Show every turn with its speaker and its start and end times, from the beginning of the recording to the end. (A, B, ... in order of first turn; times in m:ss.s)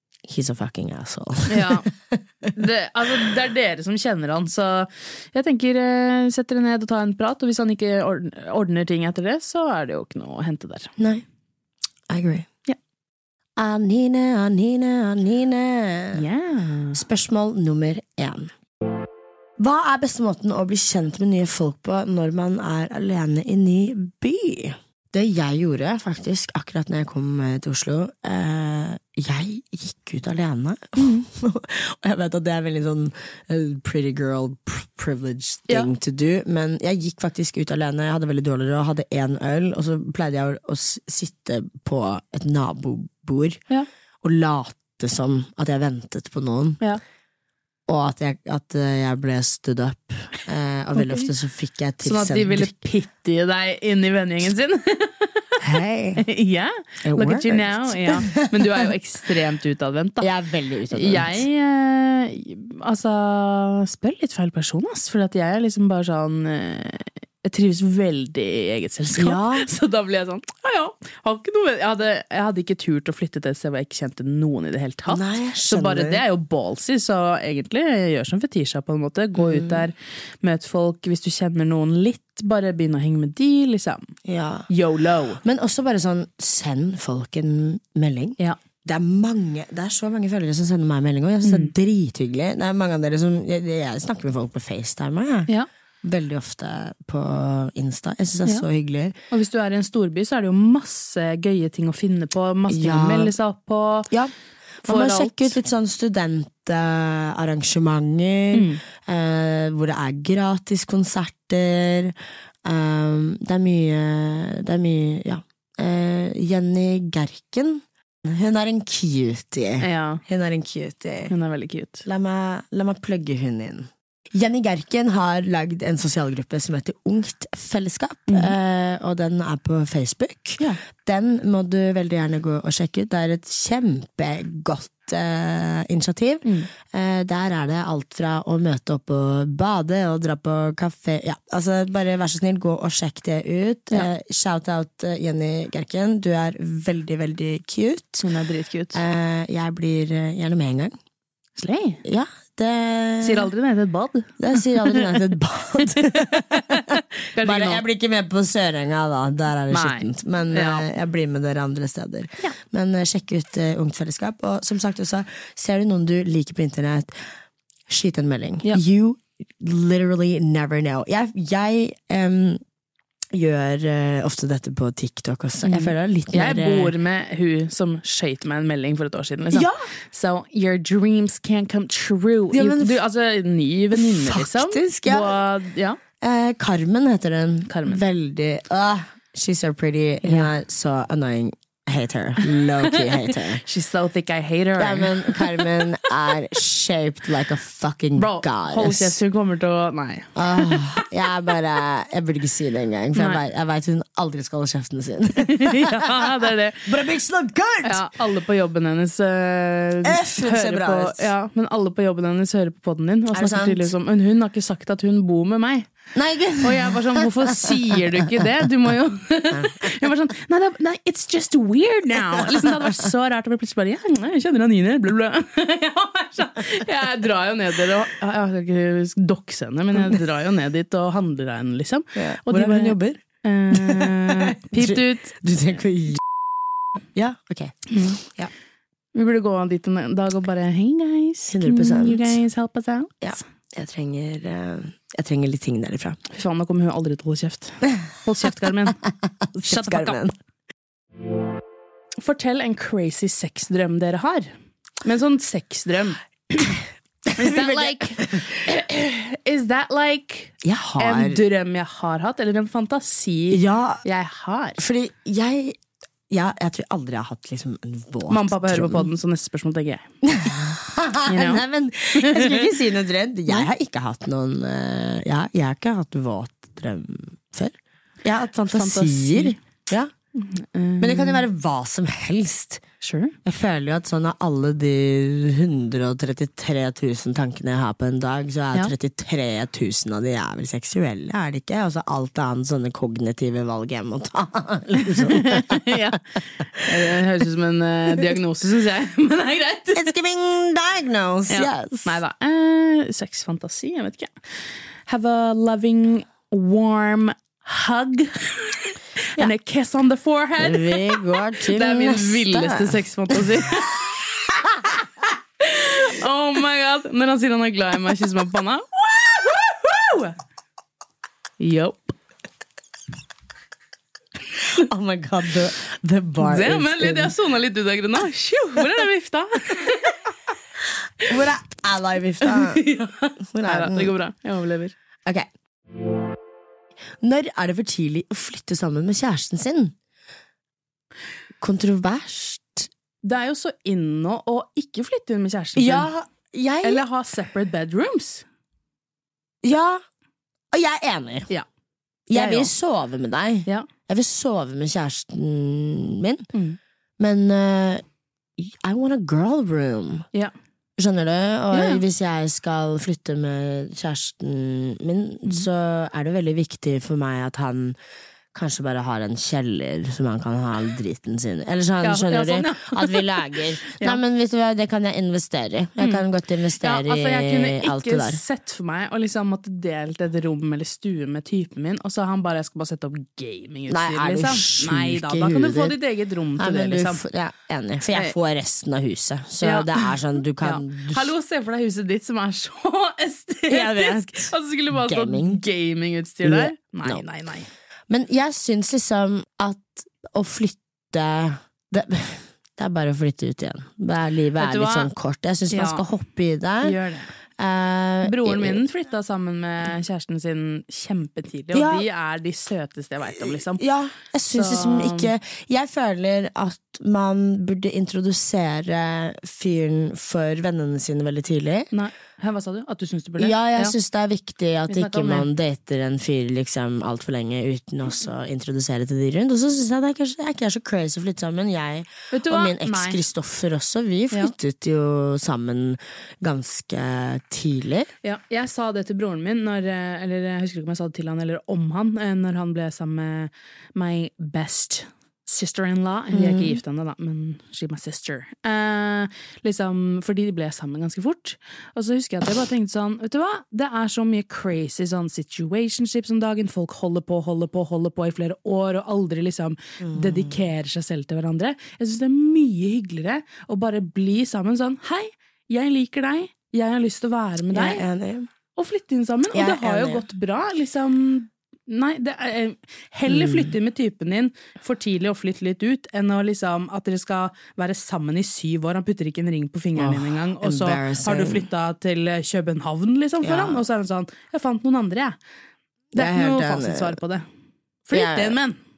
0:00.3-0:02.2 A
0:01.5-0:01.9 B
0:02.5-0:10.9 B
0:11.0-0:11.2 A
0:12.1-0:12.5 A
0:13.6-0:16.2 A
0:16.1-0:17.0 B
0:16.9-0:18.5 A
0:19.6-0:43.6 A
0:31.0-0:31.3 B
0:44.2-0:46.8 A
0:47.9-0:52.8 A
0:51.0-0:51.3 B
0:52.0-0:55.6 B
0:55.6-0:56.3 A
0:56.2-1:00.3 B
0:57.0-0:58.9 A
1:00.2-1:01.4 A
1:00.9-1:24.2 B
1:09.2-1:09.7 A
1:15.1-1:16.2 A
1:19.4-1:19.9 A
1:24.2-1:24.7 A
1:24.7-1:25.4 B
1:25.4-1:35.5 A
1:31.4-1:31.7 B
1:36.0-1:39.2 A
1:39.3-1:44.1 B
1:42.7-1:43.3 A
1:44.1-2:01.3 A
1:44.8-1:45.6 B
1:48.5-1:48.8 B
1:59.8-2:00.2 B
2:01.3-2:02.0 B
2:02.0-2:28.3 A
2:08.3-2:08.6 B
2:28.2-2:29.0 B
2:28.9-2:31.0 A
2:31.6-2:32.0 B
2:32.0-2:33.5 A
2:33.2-2:35.2 B
2:34.4-2:47.2 A
2:36.0-2:37.8 B
2:39.7-2:40.9 B
2:47.9-2:52.6 A
2:53.3-2:56.9 A
2:55.7-3:06.0 B
2:59.5-2:59.9 A
3:02.5-3:03.0 A
3:03.9-3:05.4 A
3:06.2-3:13.6 A
3:07.7-3:08.0 B
3:10.2-3:10.5 B
3:12.6-3:16.0 B
3:14.8-3:19.2 A
3:18.2-3:21.1 B
3:20.4-3:26.3 A
3:23.2-3:23.4 B
3:25.4-3:26.9 B
3:26.8-3:28.1 A
3:27.8-3:35.9 B
3:30.0-3:31.3 A
3:33.3-3:33.9 A
3:36.1-3:37.9 A
3:36.6-3:55.4 B
3:39.5-3:39.9 A
3:42.4-3:42.7 A
3:52.2-3:56.2 A
3:57.2-3:58.5 A
3:57.9-3:58.2 B
3:59.1-4:03.4 B
4:01.5-4:02.4 A
4:03.2-4:06.2 A
4:06.3-4:09.0 B
4:09.5-4:10.4 A
4:09.6-4:10.2 B
4:12.2-4:16.8 B
4:17.3-4:18.5 A
4:17.4-4:24.8 B
4:20.6-4:21.4 A
4:23.5-4:24.0 A
4:24.8-4:25.8 A
4:26.3-4:29.1 A
4:28.3-4:30.1 B
4:30.2-4:40.1 A
4:31.3-4:32.7 B
4:38.7-4:39.6 B
4:40.4-4:41.4 B
4:41.0-4:42.8 A
4:43.0-4:43.4 B
4:43.4-4:56.0 A
4:55.1-5:00.1 B
4:56.8-4:57.1 A
4:59.9-5:02.2 A
5:01.5-5:04.3 B
5:05.1-5:14.0 B
5:10.6-5:13.4 A
5:14.6-5:15.0 A
5:15.6-5:20.4 B
5:21.6-5:22.1 B
5:24.6-5:27.3 A
5:26.4-5:30.2 B
5:31.2-5:32.8 A
5:32.4-5:34.9 B
5:33.5-5:34.1 A
5:37.2-5:40.0 A
5:41.6-5:42.9 A
5:43.2-5:46.1 B
5:45.8-5:47.0 A
5:46.8-5:48.4 B
5:49.6-5:50.0 A
5:50.7-5:51.5 A
5:52.3-5:56.5 A
5:52.3-5:52.7 B
5:56.5-5:56.8 B
5:57.2-5:58.0 A
5:58.6-6:00.3 A
6:01.0-6:08.0 A
6:01.7-6:02.0 B
6:08.5-6:18.4 A
6:12.0-6:14.2 B
6:16.0-6:16.2 B
6:16.8-6:27.2 B
6:23.9-6:26.0 A
6:26.6-6:31.3 A
6:29.6-6:37.7 B
6:33.7-6:35.6 A
6:36.4-6:37.2 A
6:38.1-6:47.0 A
6:44.6-6:45.1 B
6:45.7-6:46.1 B
6:46.8-6:47.3 B
6:47.6-6:48.8 A
6:48.2-6:53.8 B
6:51.7-6:52.1 A
6:53.3-7:01.9 A
6:54.5-6:55.3 B
7:01.9-7:04.0 B
7:03.4-7:18.1 A
7:04.9-7:05.5 B
7:12.3-7:13.2 B
7:18.2-7:48.0 B
7:26.3-7:26.8 A
7:40.0-7:40.6 A
7:47.7-7:48.5 A
7:48.8-8:05.4 B
7:49.5-7:50.2 A
7:53.3-7:53.7 A
8:00.0-8:01.7 A
8:03.4-8:03.8 A
8:06.1-8:07.2 A
8:06.1-8:07.5 B
8:08.1-8:08.8 B
8:08.1-8:08.6 A